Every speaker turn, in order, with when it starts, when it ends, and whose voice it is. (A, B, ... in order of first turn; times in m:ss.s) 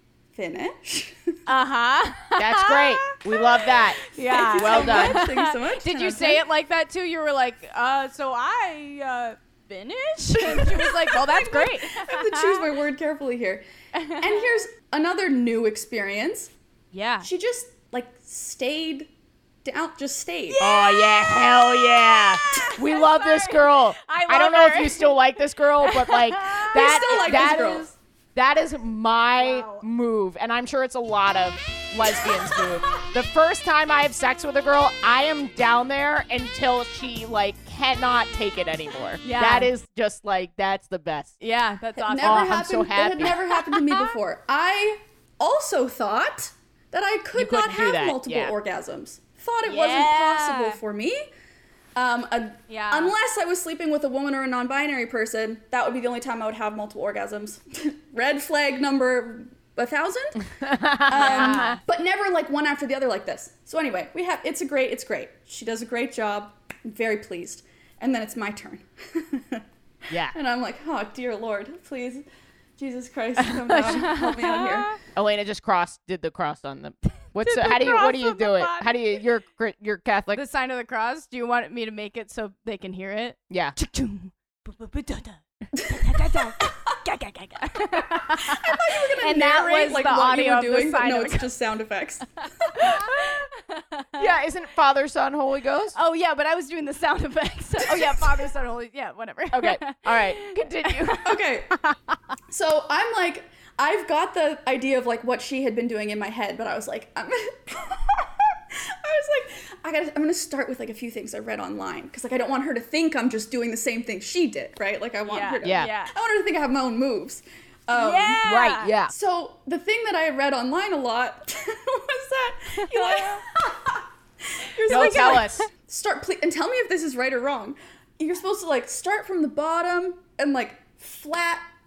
0:00.3-0:01.4 A
0:01.5-0:12.7 B
0:02.4-0:05.3 C
0:04.2-0:06.4 A
0:10.4-0:13.6 A
0:13.9-0:14.6 B
0:14.2-0:16.5 A
0:16.9-0:17.3 B
0:17.2-0:19.1 A
0:19.6-0:20.6 A
0:20.5-0:26.9 B
0:20.6-0:41.4 C
0:26.7-0:27.9 A
0:29.4-0:29.8 B
0:32.0-0:33.1 B
0:39.2-0:39.7 B
0:41.4-0:42.6 B
0:42.0-0:51.2 A
0:42.2-0:43.4 C
0:43.6-0:44.1 B
0:47.3-0:48.5 C
0:49.6-0:50.8 B
0:52.0-1:00.5 A
0:52.7-0:53.1 B
1:00.6-1:01.8 C
1:01.0-1:09.6 A
1:01.1-1:01.8 B
1:10.1-1:10.3 C
1:10.3-1:12.2 A
1:12.8-1:15.0 A
1:13.7-1:15.0 B
1:15.1-1:20.4 C
1:17.3-1:19.2 B
1:20.3-1:31.5 B
1:23.5-1:23.7 C
1:25.7-1:27.0 A
1:27.9-1:33.2 A
1:32.7-1:34.3 B
1:34.2-1:36.0 C
1:35.9-1:42.1 B
1:37.9-1:38.2 A
1:39.5-1:41.2 C
1:41.2-1:41.8 A
1:42.5-1:58.4 A
1:55.2-1:56.1 B
1:55.6-1:55.9 C
1:57.9-1:58.9 B
1:58.4-1:59.1 C
1:59.1-2:11.6 A
2:02.8-2:03.4 B
2:04.9-2:05.7 C
2:04.9-2:05.6 B